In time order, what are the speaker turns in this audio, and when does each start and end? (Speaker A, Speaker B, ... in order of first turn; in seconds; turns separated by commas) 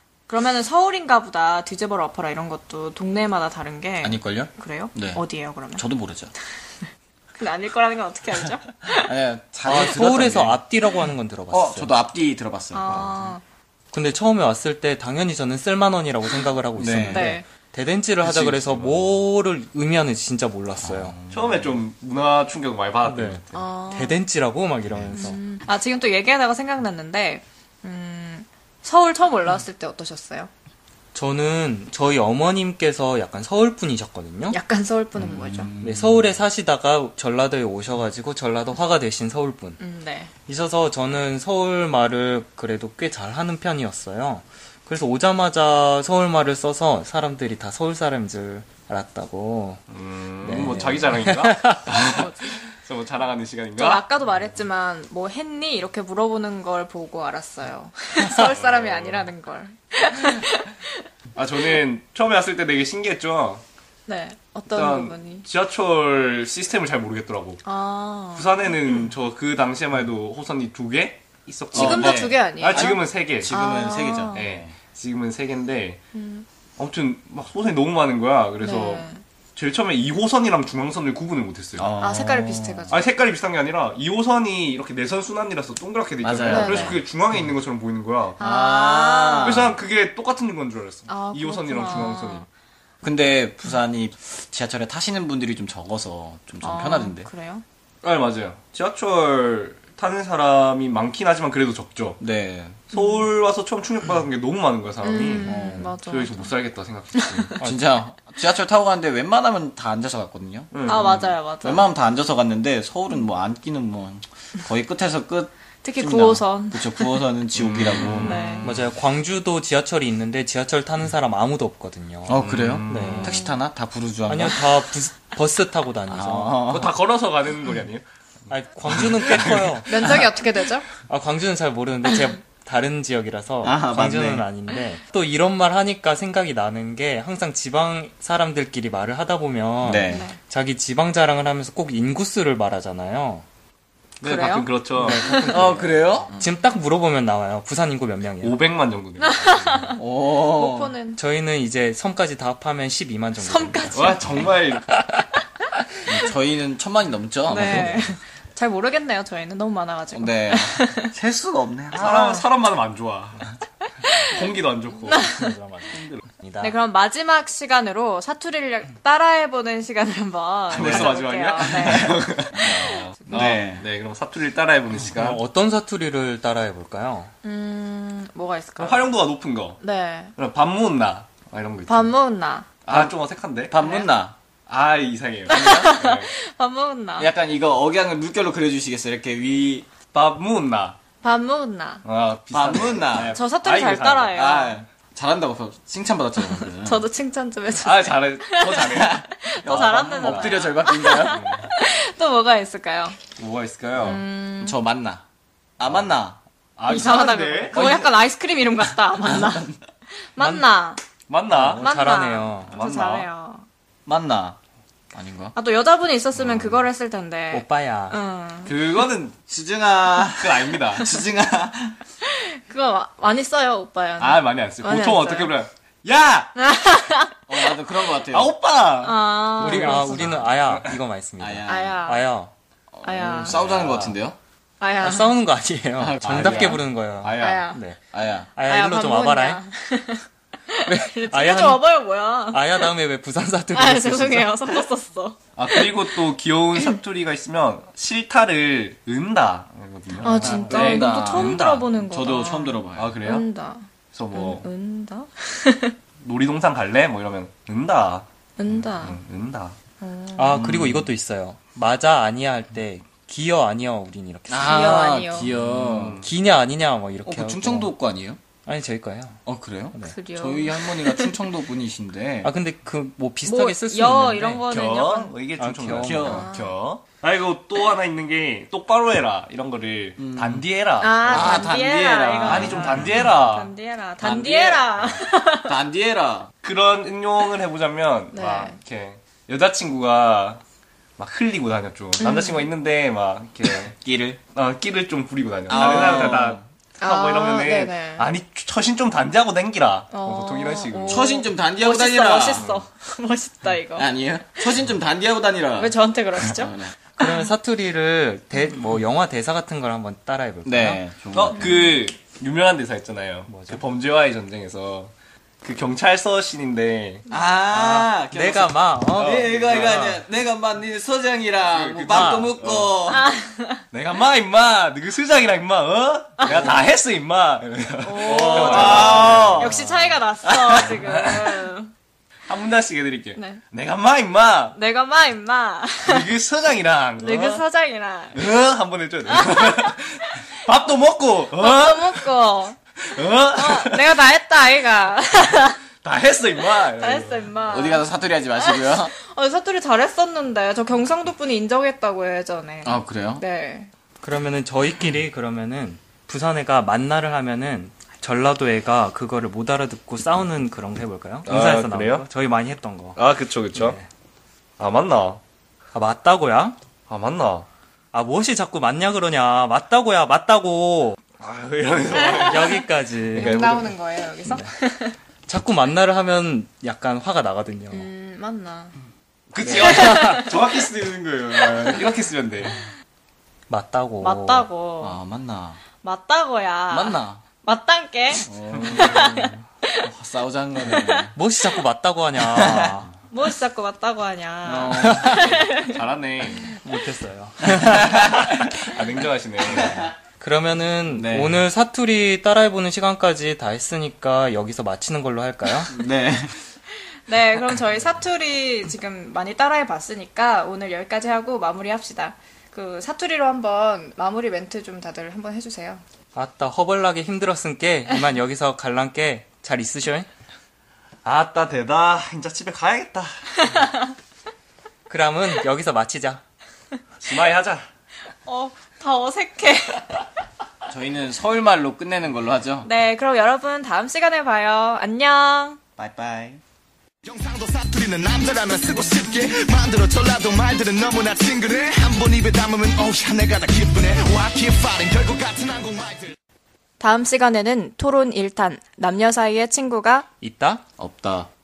Speaker A: 0.3-5.8, Speaker B: 4.0-6.3, Speaker A: 7.3-9.1, Speaker B: 8.9-10.6, Speaker C: 9.6-11.9, Speaker B: 11.5-13.3, Speaker A: 12.7-13.4, Speaker C: 13.9-21.2, Speaker B: 16.8-17.3, Speaker A: 17.1-17.4, Speaker D: 18.2-19.2, Speaker B: 20.8-21.7, Speaker D: 21.3-23.6, Speaker C: 23.1-25.4, Speaker A: 23.5-24.2, Speaker A: 25.1-30.5, Speaker C: 31.1-34.6, Speaker A: 34.5-35.7, Speaker B: 35.2-36.3, Speaker C: 35.8-39.8, Speaker A: 39.8-40.3, Speaker C: 40.5-49.8, Speaker D: 49.9-54.1, Speaker C: 50.4-52.2, Speaker A: 52.0-52.6, Speaker A: 53.8-60.9, Speaker D: 58.4-59.3, Speaker D: 61.3-63.6, Speaker A: 64.1-65.5, Speaker D: 64.7-67.6, Speaker A: 67.6-69.0, Speaker D: 68.3-73.5, Speaker A: 71.7-74.5, Speaker B: 71.7-74.7, Speaker D: 74.3-76.0, Speaker A: 76.1-76.5, Speaker D: 76.8-81.9, Speaker A: 78.6-79.2, Speaker B: 81.8-82.9, Speaker A: 82.0-83.0, Speaker D: 82.9-88.4, Speaker B: 86.2-87.0, Speaker A: 86.5-87.0, Speaker A: 88.4-89.7, Speaker B: 88.4-89.8, Speaker D: 89.4-92.5, Speaker A: 91.1-92.5, Speaker B: 93.0-97.3, Speaker A: 96.6-97.6, Speaker D: 98.0-102.2, Speaker B: 102.2-102.8, Speaker D: 102.9-107.6, Speaker A: 102.9-103.2, Speaker A: 105.0-106.5, Speaker B: 105.4-105.9, Speaker A: 107.1-107.5, Speaker C: 107.6-107.8, Speaker B: 107.6-118.5, Speaker D: 110.7-111.3, Speaker A: 110.8-111.9, Speaker A: 115.8-117.3, Speaker D: 117.5-118.7, Speaker A: 118.2-118.8, Speaker C: 118.3-123.4, Speaker B: 122.3-124.8, Speaker D: 122.3-123.4, Speaker C: 124.3-126.6, Speaker B: 126.1-126.9, Speaker D: 126.7-129.8, Speaker C: 128.5-130.1, Speaker A: 129.8-130.9, Speaker C: 131.1-143.4, Speaker B: 133.6-134.5, Speaker B: 139.8-140.3, Speaker A: 140.0-140.4, Speaker A: 144.2-145.7, Speaker D: 144.3-145.2, Speaker C: 145.0-148.6, Speaker B: 145.5-146.3, Speaker D: 148.4-149.9, Speaker A: 149.2-151.2, Speaker B: 150.0-150.9, Speaker C: 151.2-154.1, Speaker A: 153.4-154.4, Speaker D: 153.9-154.9, Speaker B: 156.1-158.0, Speaker A: 157.5-161.1, Speaker C: 157.6-158.1, Speaker B: 160.1-162.2, Speaker D: 161.9-163.5, Speaker A: 162.1-162.4, Speaker A: 164.1-164.4, Speaker D: 164.2-165.3, Speaker A: 165.1-165.5, Speaker C: 165.1-166.8, Speaker D: 165.9-166.2, Speaker A: 166.6-173.1, Speaker D: 170.7-175.4, Speaker B: 170.7-171.1, Speaker B: 171.7-172.2, Speaker B: 173.3-173.8, Speaker C: 175.1-177.3, Speaker A: 177.4-179.1, Speaker D: 178.8-179.8, Speaker A: 179.8-180.3, Speaker D: 180.4-182.1, Speaker A: 181.9-182.7, Speaker D: 182.8-183.7, Speaker B: 183.7-184.3, Speaker A: 183.8-184.1, Speaker D: 184.7-186.3, Speaker A: 185.5-187.3, Speaker B: 187.2-189.9, Speaker D: 190.1-191.0, Speaker A: 191.2-192.0, Speaker D: 192.0-194.4, Speaker B: 192.5-193.4, Speaker A: 193.3-194.8, Speaker B: 194.3-197.1, Speaker A: 196.4-203.2, Speaker D: 197.8-201.7, Speaker B: 198.8-201.4, Speaker D: 203.4-204.2, Speaker A: 204.0-204.8, Speaker B: 204.6-205.2, Speaker B: 205.8-206.4, Speaker D: 206.8-208.1, Speaker A: 206.9-209.7, Speaker B: 209.2-209.8, Speaker A: 210.2-211.0, Speaker C: 210.4-210.7, Speaker D: 211.3-211.9, Speaker C: 211.5-212.8, Speaker A: 211.7-213.7, Speaker D: 212.7-213.3, Speaker B: 214.1-214.6, Speaker B: 215.1-215.5, Speaker A: 215.5-218.8, Speaker C: 217.5-218.2, Speaker D: 218.7-219.3, Speaker B: 219.5-222.0, Speaker D: 220.4-221.2, Speaker A: 222.2-225.6, Speaker D: 224.2-225.7, Speaker B: 226.1-226.5, Speaker A: 226.5-227.8, Speaker B: 227.5-228.5, Speaker D: 228.3-230.9, Speaker A: 229.0-230.5, Speaker C: 229.6-232.5, Speaker B: 231.4-232.0, Speaker A: 231.6-232.3, Speaker B: 232.9-234.4, Speaker A: 233.0-233.6, Speaker D: 233.4-234.2, Speaker A: 234.8-235.3, Speaker C: 235.0-238.0, Speaker B: 236.0-236.8, Speaker D: 236.2-237.7, Speaker A: 237.4-237.8, Speaker B: 238.1-238.5, Speaker C: 238.5-239.6, Speaker A: 238.6-242.9, Speaker C: 240.8-241.9, Speaker C: 242.5-244.5, Speaker A: 243.7-246.1, Speaker D: 245.6-251.9, Speaker A: 250.2-255.9, Speaker B: 250.3-253.1, Speaker C: 250.4-250.8, Speaker D: 252.9-253.4, Speaker D: 254.1-254.7, Speaker D: 256.2-258.2, Speaker A: 258.6-259.2, Speaker D: 258.8-259.8, Speaker A: 260.0-260.6, Speaker C: 260.4-267.9, Speaker B: 260.6-261.0, Speaker B: 264.5-266.2, Speaker A: 264.6-265.5, Speaker D: 265.6-266.3, Speaker B: 267.2-268.4, Speaker C: 268.6-269.4, Speaker B: 269.4-272.5, Speaker A: 270.0-271.4, Speaker C: 272.4-274.7, Speaker A: 273.4-275.3, Speaker D: 274.6-281.7, Speaker C: 275.6-276.4, Speaker B: 275.9-276.5, Speaker A: 276.3-276.8, Speaker B: 280.2-280.6, Speaker A: 281.0-285.8, Speaker B: 281.2-283.1, Speaker D: 282.4-283.7, Speaker B: 284.2-286.5, Speaker D: 286.6-290.6, Speaker A: 288.3-288.8, Speaker D: 291.2-293.9, Speaker A: 292.2-292.7, Speaker B: 293.9-294.4, Speaker D: 294.5-301.4, Speaker B: 295.7-296.6, Speaker A: 295.7-296.3, Speaker A: 297.0-298.3, Speaker A: 300.1-304.8, Speaker B: 301.1-302.6, Speaker D: 302.5-302.8, Speaker B: 303.9-307.0, Speaker A: 305.8-306.7, Speaker C: 307.2-311.0, Speaker B: 310.6-311.7, Speaker D: 311.3-315.1, Speaker A: 311.6-311.9, Speaker C: 313.5-313.8, Speaker D: 315.6-317.2, Speaker B: 317.3-323.3, Speaker C: 317.7-320.2, Speaker D: 319.2-320.1, Speaker D: 321.6-322.9, Speaker C: 322.1-322.5, Speaker A: 323.1-323.8, Speaker D: 323.9-329.9, Speaker A: 328.0-331.9, Speaker B: 328.2-329.8, Speaker B: 330.5-330.8, Speaker D: 330.8-331.6, Speaker D: 332.5-334.8, Speaker A: 333.4-333.6, Speaker A: 334.7-336.3, Speaker D: 336.0-337.6, Speaker A: 337.2-338.4, Speaker D: 338.3-342.2, Speaker A: 339.3-340.1, Speaker A: 341.6-342.8, Speaker D: 343.0-344.1, Speaker A: 343.5-345.8, Speaker D: 346.0-347.5, Speaker A: 346.7-353.9, Speaker B: 347.7-349.1, Speaker B: 352.8-353.4, Speaker C: 354.2-363.2, Speaker D: 361.4-362.3, Speaker D: 363.1-364.0, Speaker C: 363.7-364.1, Speaker D: 364.8-365.4, Speaker C: 365.9-366.8, Speaker D: 367.1-367.7, Speaker C: 368.1-371.2, Speaker D: 371.4-374.0, Speaker A: 372.2-372.6, Speaker C: 372.3-373.8, Speaker A: 373.4-375.1, Speaker C: 374.4-374.7, Speaker C: 375.5-378.1, Speaker A: 377.9-378.9, Speaker D: 379.5-382.8, Speaker A: 379.8-380.6, Speaker C: 379.8-380.5, Speaker C: 383.7-384.7, Speaker A: 384.2-385.2, Speaker B: 385.0-385.8, Speaker A: 386.0-390.1, Speaker B: 386.9-387.4, Speaker B: 388.4-389.4, Speaker D: 388.8-389.2, Speaker B: 390.0-391.3, Speaker A: 390.8-391.3, Speaker C: 391.3-393.1, Speaker B: 392.5-392.9, Speaker A: 393.3-396.0, Speaker B: 394.6-395.4, Speaker C: 394.9-395.6, Speaker D: 395.3-396.7, Speaker C: 396.6-398.7, Speaker B: 397.8-398.5, Speaker D: 398.8-400.1, Speaker C: 400.2-405.9, Speaker B: 401.1-401.6, Speaker B: 405.9-406.5, Speaker A: 407.2-416.0, Speaker C: 416.3-420.3, Speaker D: 421.2-423.8, Speaker A: 423.7-424.0, Speaker C: 425.1-426.4, Speaker D: 427.2-427.9, Speaker A: 428.4-430.2, Speaker B: 430.9-432.9, Speaker A: 432.8-435.8, Speaker B: 436.0-436.6, Speaker E: 437.2-446.3, Speaker A: 447.0-450.3, Speaker C: 450.4-450.8, Speaker B: 451.0-451.5